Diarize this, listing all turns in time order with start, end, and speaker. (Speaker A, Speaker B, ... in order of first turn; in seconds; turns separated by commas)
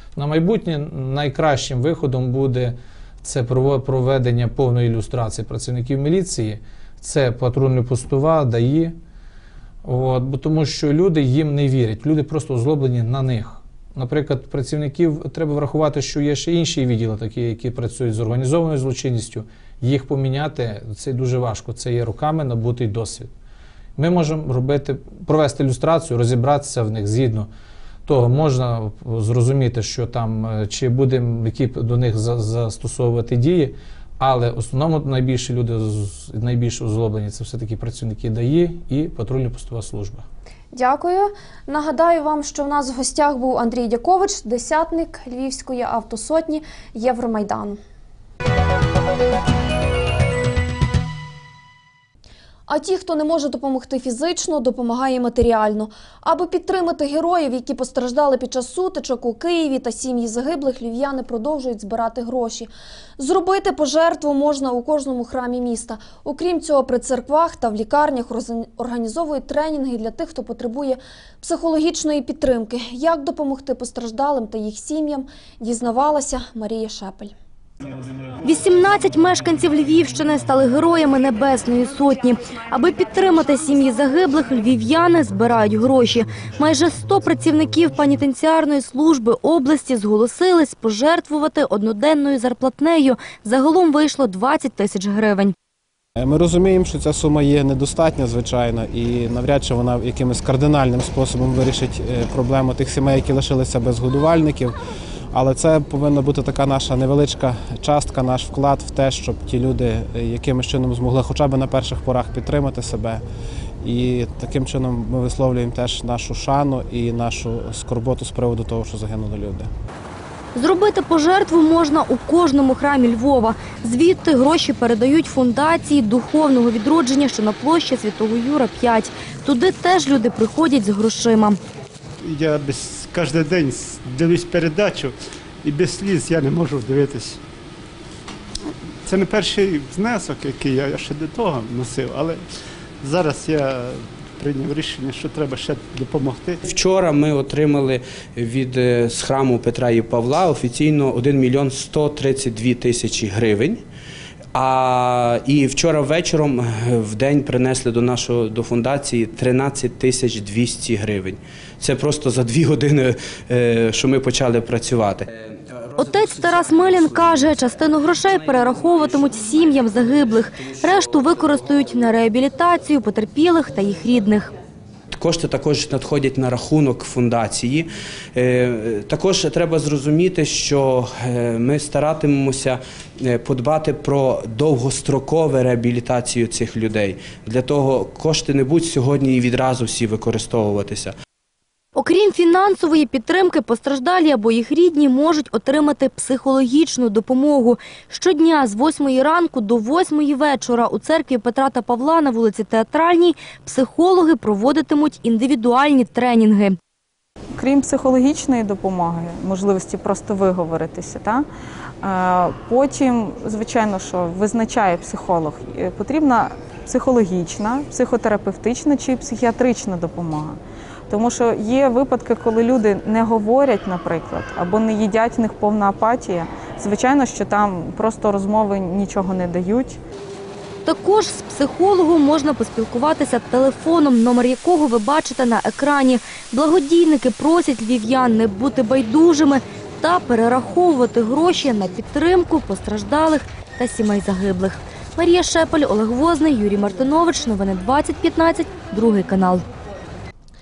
Speaker A: 0.1-8.9, Speaker A: 9.8-23.3, Speaker A: 24.0-27.5, Speaker A: 28.1-40.2, Speaker B: 40.7-47.8, Speaker B: 52.7-77.3, Speaker C: 78.4-95.5, Speaker D: 96.2-104.7, Speaker D: 105.3-113.2, Speaker D: 113.8-119.7, Speaker C: 120.5-131.6, Speaker E: 132.2-137.4, Speaker E: 139.1-142.4, Speaker E: 143.0-146.6, Speaker F: 146.6-153.8, Speaker F: 154.5-165.2, Speaker C: 166.0-174.5, Speaker F: 175.1-191.1, Speaker C: 191.9-206.8, Speaker G: 207.6-211.4, Speaker G: 212.0-220.6, Speaker G: 221.1-230.0, Speaker C: 230.8-249.6